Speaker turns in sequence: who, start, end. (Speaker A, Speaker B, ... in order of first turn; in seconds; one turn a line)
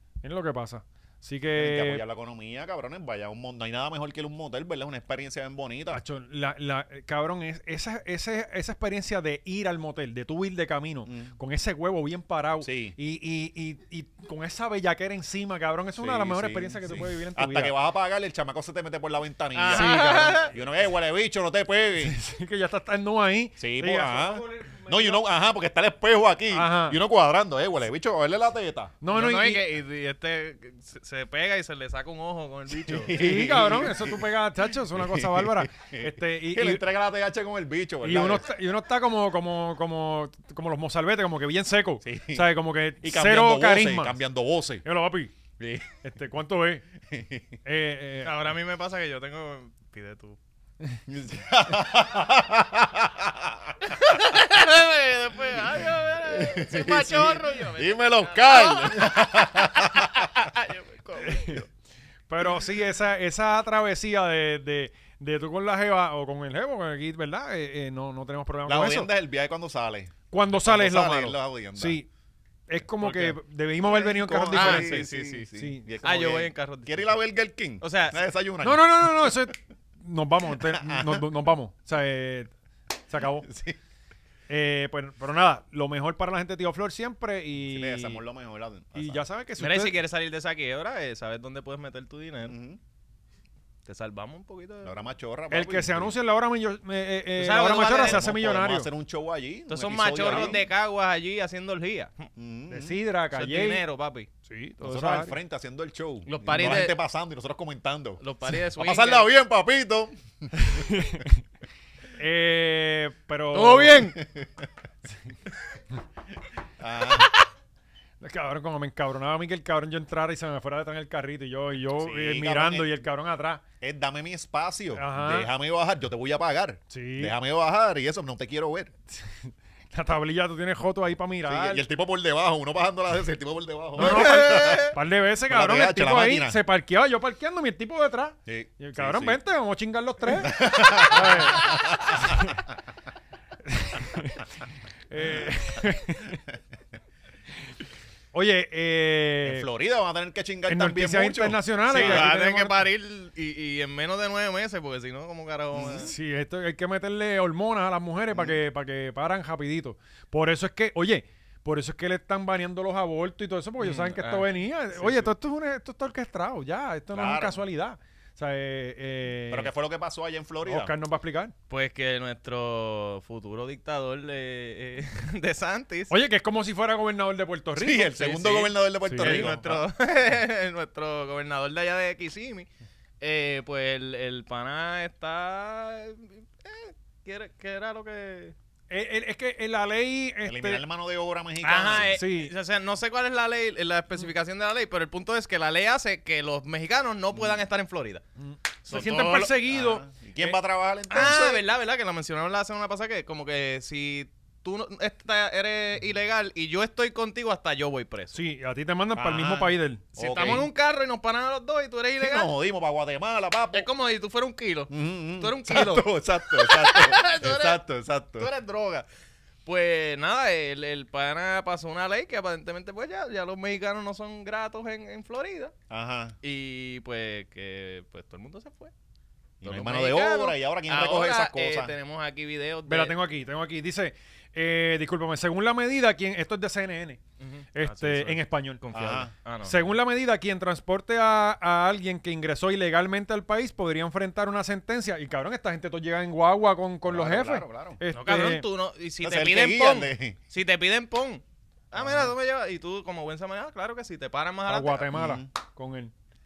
Speaker A: 0.2-2.0
Speaker B: 1.5-6.0
Speaker A: 5.9-17.7
Speaker B: 11.0-11.3
Speaker B: 12.6-12.9
Speaker B: 16.0-22.2
Speaker C: 19.5-20.5
Speaker A: 19.7-20.5
Speaker A: 22.0-25.2
Speaker B: 23.6-28.9
Speaker A: 26.5-27.0
Speaker A: 29.0-29.6
Speaker C: 29.1-33.2
Speaker B: 32.7-38.5
Speaker A: 33.1-36.8
Speaker A: 38.0-44.2
Speaker B: 42.0-44.8
Speaker A: 44.8-45.3
Speaker B: 45.6-45.9
Speaker A: 46.0-46.8
Speaker B: 47.1-47.6
Speaker A: 47.6-48.4
Speaker C: 48.2-50.4
Speaker B: 51.1-53.7
Speaker C: 53.9-61.6
Speaker B: 56.2-60.3
Speaker A: 61.2-61.6
Speaker A: 62.3-69.1
Speaker B: 68.6-72.0
Speaker A: 70.3-72.1
Speaker A: 72.7-75.8
Speaker C: 73.0-73.4
Speaker B: 73.8-79.5
Speaker C: 74.5-77.2
Speaker C: 77.8-78.2
Speaker A: 78.6-82.5
Speaker B: 80.5-81.3
Speaker A: 83.1-83.5
Speaker B: 83.2-83.8
Speaker A: 84.5-88.2
Speaker B: 87.6-89.2
Speaker A: 88.9-90.0
Speaker C: 89.6-92.5
Speaker B: 92.5-92.8
Speaker C: 93.8-95.1
Speaker B: 94.8-96.1
Speaker A: 95.5-98.9
Speaker C: 97.4-98.2
Speaker B: 97.8-100.6
Speaker C: 99.7-102.3
Speaker A: 100.3-100.5
Speaker B: 102.3-103.0
Speaker A: 102.7-103.8
Speaker C: 103.3-104.3
Speaker A: 104.5-105.3
Speaker B: 104.8-111.2
Speaker C: 106.2-107.0
Speaker C: 108.2-109.3
Speaker A: 110.5-111.4
Speaker A: 112.2-114.1
Speaker C: 113.5-114.2
Speaker B: 114.2-114.5
Speaker B: 116.8-117.3
Speaker A: 118.2-123.6
Speaker B: 122.0-123.0
Speaker B: 123.8-128.9
Speaker A: 124.9-125.5
Speaker A: 126.9-127.3
Speaker A: 129.1-131.8
Speaker B: 131.4-135.0
Speaker A: 133.9-142.6
Speaker C: 134.0-134.9
Speaker B: 135.5-136.6
Speaker B: 138.5-139.4
Speaker B: 140.4-142.6
Speaker A: 143.7-144.4
Speaker A: 145.1-146.4
Speaker A: 148.3-149.7
Speaker B: 149.4-152.3
Speaker A: 150.7-152.8
Speaker C: 151.9-156.1
Speaker B: 155.7-156.1
Speaker A: 156.0-169.7
Speaker B: 158.3-158.6
Speaker C: 163.8-165.3
Speaker B: 167.1-167.6
Speaker B: 169.5-170.9
Speaker A: 170.6-171.5
Speaker C: 171.7-176.1
Speaker A: 176.1-178.1
Speaker B: 177.8-179.9
Speaker C: 178.1-182.7
Speaker A: 179.0-179.5
Speaker C: 183.2-188.5
Speaker A: 188.9-190.8
Speaker B: 190.4-192.2
Speaker C: 191.6-198.2
Speaker A: 192.1-192.5
Speaker B: 197.3-197.6
Speaker A: 198.4-200.5
Speaker C: 198.8-199.6
Speaker B: 199.7-201.7
Speaker C: 201.1-208.4
Speaker A: 208.3-210.6
Speaker B: 209.2-210.7
Speaker C: 210.2-212.5
Speaker B: 212.2-213.9
Speaker C: 213.7-217.8
Speaker B: 214.9-218.5
Speaker C: 218.3-219.1
Speaker C: 219.6-225.7
Speaker B: 225.9-226.3
Speaker C: 226.4-228.9
Speaker B: 229.6-231.9
Speaker C: 229.6-233.1
Speaker A: 232.9-237.2
Speaker C: 237.4-239.9
Speaker A: 237.7-238.8
Speaker B: 238.9-239.3
Speaker A: 239.6-248.6
Speaker B: 247.1-248.0
Speaker C: 248.1-255.1
Speaker B: 249.2-250.4
Speaker B: 251.9-252.3
Speaker A: 254.7-256.1
Speaker B: 255.1-255.5